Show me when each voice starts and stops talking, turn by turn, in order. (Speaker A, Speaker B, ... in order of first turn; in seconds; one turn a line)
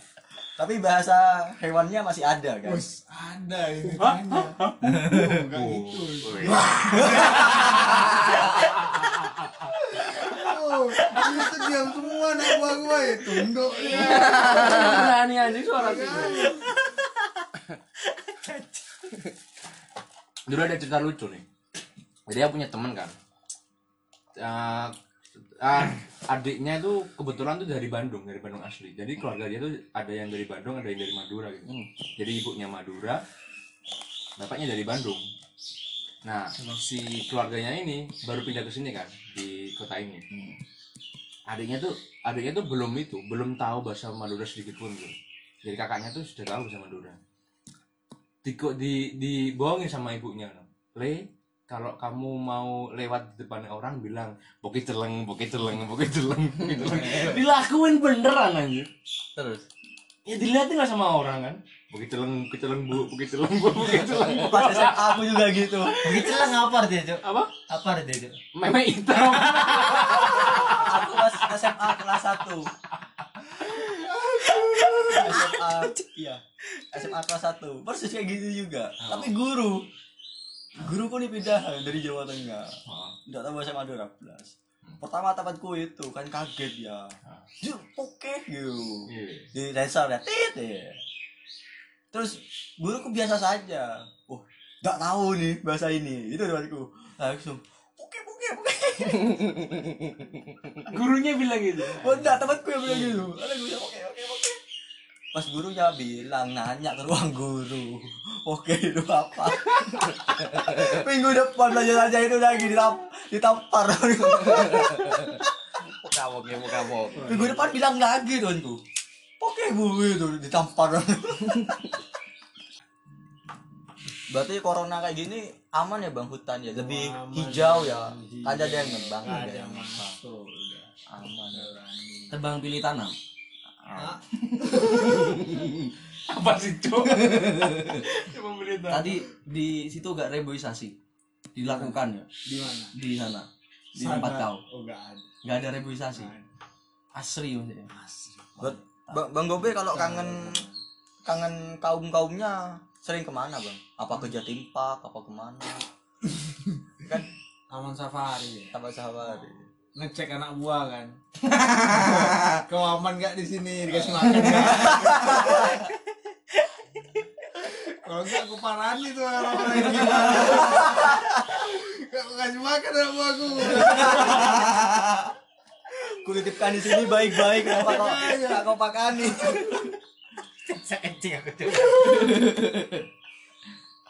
Speaker A: 0.6-2.9
Speaker B: 2.6-8.0
Speaker C: 4.0-9.7
Speaker D: 4.9-5.2
Speaker A: 7.0-7.7
Speaker B: 9.9-15.1
Speaker E: 13.9-16.6
Speaker C: 14.0-16.0
Speaker B: 15.6-16.7
Speaker D: 16.6-17.0
Speaker D: 18.3-18.6
Speaker C: 20.5-21.4
Speaker C: 22.3-23.1
Speaker C: 24.4-24.9
Speaker C: 25.6-33.2
Speaker C: 34.4-35.3
Speaker C: 36.2-40.2
Speaker E: 40.3-40.6
Speaker C: 41.5-47.2
Speaker C: 48.4-58.9
Speaker E: 56.6-57.4
Speaker E: 59.4-59.6
Speaker C: 60.3-66.6
Speaker A: 64.3-66.1
Speaker D: 66.0-68.4
Speaker C: 67.2-67.5
Speaker C: 68.5-71.5
Speaker D: 69.2-70.5
Speaker A: 70.7-72.7
Speaker B: 74.0-75.0
Speaker D: 74.8-75.4
Speaker A: 75.0-79.9
Speaker C: 79.0-79.3
Speaker A: 80.8-91.0
Speaker C: 82.9-83.2
Speaker C: 89.1-89.5
Speaker A: 92.1-99.9
Speaker C: 100.9-102.3
Speaker A: 101.9-104.6
Speaker A: 105.3-115.5
Speaker E: 114.8-115.2
Speaker E: 115.9-117.6
Speaker B: 117.1-117.6
Speaker A: 117.3-118.8
Speaker A: 119.4-121.8
Speaker A: 124.3-130.1
Speaker B: 126.8-132.5
Speaker A: 131.1-131.7
Speaker E: 132.3-133.1
Speaker B: 133.9-135.3
Speaker E: 134.6-135.9
Speaker C: 136.3-139.2
Speaker E: 137.1-138.0
Speaker E: 138.9-140.9
Speaker E: 141.6-142.3
Speaker B: 141.6-142.9
Speaker E: 142.9-144.6
Speaker B: 143.9-145.3
Speaker E: 145.4-146.3
Speaker B: 146.1-146.4
Speaker E: 147.1-147.9
Speaker B: 147.9-148.7
Speaker A: 148.6-150.6
Speaker E: 148.6-149.2
Speaker B: 149.8-150.8
Speaker A: 151.2-155.9
Speaker B: 156.3-156.7
Speaker B: 157.7-158.8
Speaker A: 158.7-159.6
Speaker B: 159.9-161.2
Speaker B: 161.7-165.7
Speaker A: 164.9-165.6
Speaker B: 167.6-174.6
Speaker A: 173.8-175.3
Speaker A: 176.1-179.9
Speaker B: 177.4-179.8
Speaker D: 180.7-182.4
Speaker E: 182.0-183.1